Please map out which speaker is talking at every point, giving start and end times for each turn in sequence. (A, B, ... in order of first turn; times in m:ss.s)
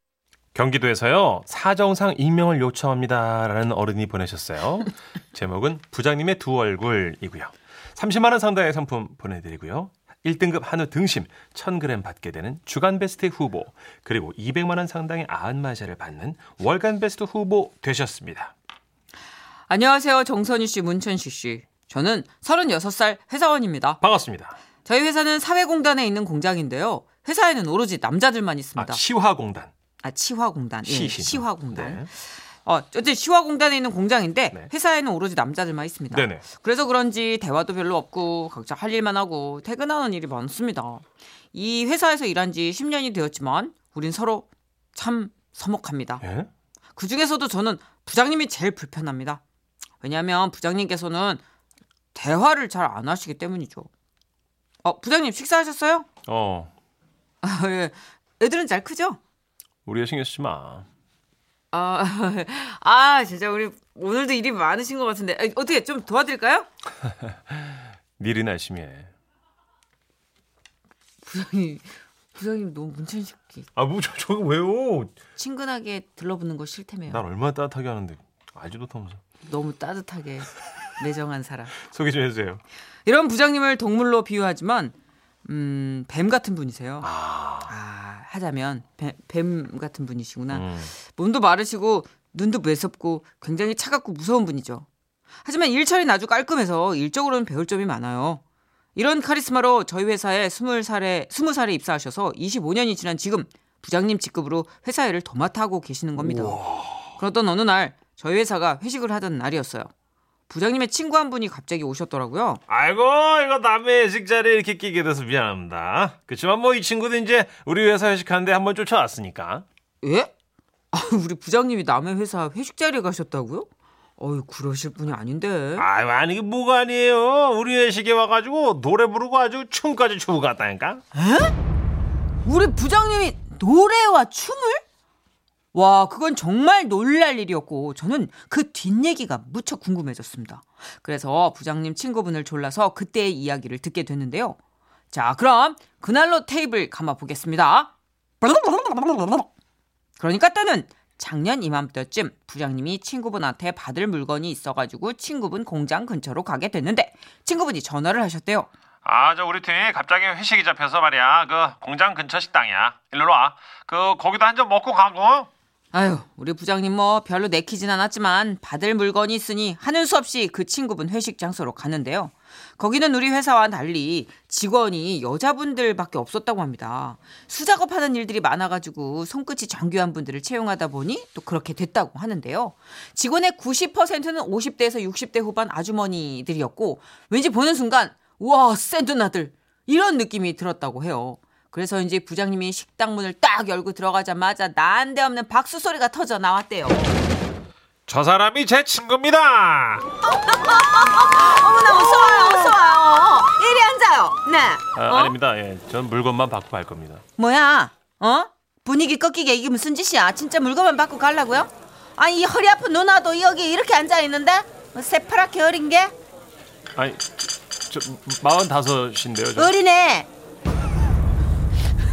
0:00.5-0:18.5 A
0:19.7-0:24.0 B
0:24.0-0:24.6 A
0:24.8-0:29.0 B
0:28.8-0:29.7 A
0:30.0-0:32.1 B
0:30.8-0:32.1 A
0:32.6-0:46.2 B
0:36.1-0:36.4 A
0:46.2-0:46.5 A
0:46.9-0:49.4 B
0:50.0-0:51.4 B
0:52.1-0:53.9 B
0:54.8-0:56.0 B
0:56.2-0:56.7 A
0:57.4-0:59.2 B
0:59.8-1:00.9 A
1:01.7-1:06.7 B
1:07.2-1:09.1 A
1:11.2-1:13.7 B
1:13.8-1:15.2 A
1:15.4-1:17.2 B
1:17.1-1:19.2 A
1:19.4-1:21.8 B
1:21.8-1:22.6 A
1:23.0-1:27.1 B
1:27.0-1:27.7 A
1:27.6-1:34.9 B
1:30.5-1:30.9 A
1:35.4-1:38.4 B
1:38.9-1:46.6 B
1:46.2-1:47.1 A
1:47.2-1:49.9 B
1:50.5-1:52.6 B
1:52.7-1:59.6 A
2:00.0-2:00.3 B
2:00.9-2:05.9 B
2:05.8-2:11.0 A
2:11.1-2:11.5 B
2:12.4-2:14.8 B
2:15.7-2:24.6 B
2:25.1-2:29.4 B
2:30.2-2:38.7 B
2:39.0-2:45.5 A
2:45.9-3:17.1 B
3:18.1-3:20.0 A
3:20.3-3:25.3 B
3:25.0-3:27.2 A
3:27.4-3:36.1 B
3:36.9-3:39.7 A
3:39.6-3:40.3 B